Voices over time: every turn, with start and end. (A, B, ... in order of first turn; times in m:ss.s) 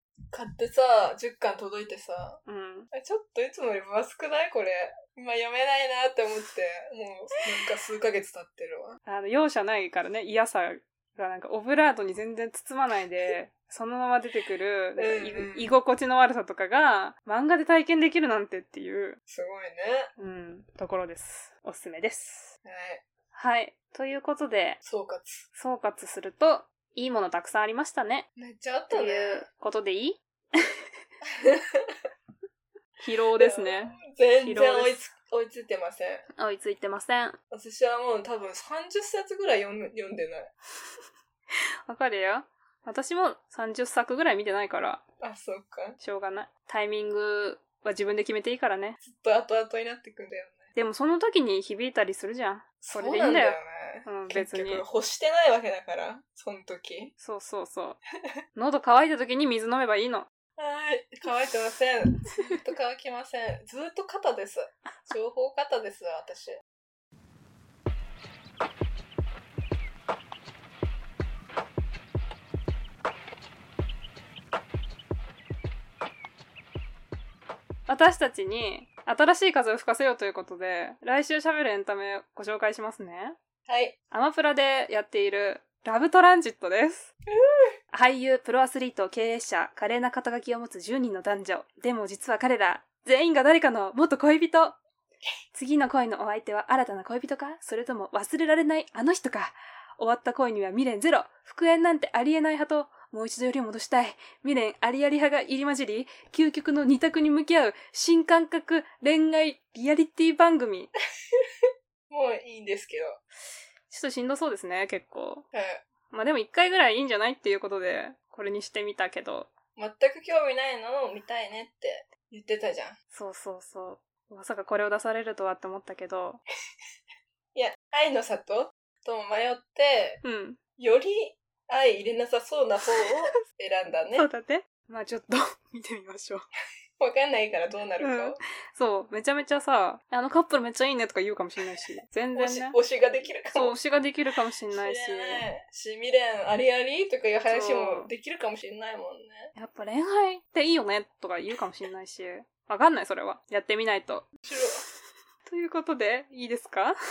0:00.3-0:02.4 A
0:02.4-0:02.9 B
0:02.9-0:09.0 A
0:09.0-0:19.2 B
0:15.0-0:15.7 A
0:19.3-0:20.1 A
0:20.2-0:22.5 B
0:22.6-0:23.0 A
0:23.3-0:24.8 B
0:24.8-0:25.5 A
0:25.5-0:28.3 B
0:28.4-0:29.4 A
0:28.9-0:30.6 B
0:31.4-0:31.9 A
0:33.0-0:35.0 B
0:33.4-0:36.2 A
0:36.4-0:37.4 B
0:37.5-0:40.5 A
0:41.9-0:45.0 B
0:45.2-0:46.0 A
0:46.0-0:49.0 B
0:49.0-0:50.7 A
0:50.7-0:54.8 B
0:52.8-0:57.1 A
0:57.2-0:58.0 B
0:58.5-1:00.3 B
1:00.6-1:06.6 A
1:02.3-1:02.6 B
1:17.9-1:23.4 B
1:23.6-1:24.0 A
1:24.1-1:27.1 B
1:27.3-1:27.7 A
1:27.9-1:34.8 B
1:35.5-1:50.9 B
1:52.1-1:53.2 A
1:53.9-1:55.4 B
1:55.5-1:55.8 A
1:56.1-1:59.5 B
1:59.8-2:03.0 A
2:03.1-2:06.4 B
2:07.5-2:10.2 A
2:10.2-2:10.6 B
2:10.8-2:14.3 A
2:14.1-2:16.5 B
2:17.0-2:18.4 A
2:18.0-2:22.8 B
2:22.3-2:23.8 A
2:23.5-2:25.4 B
2:24.7-2:29.5 A
2:27.5-2:28.1 B
2:29.5-2:34.3 B
2:34.4-2:34.8 A
2:35.4-2:36.9 B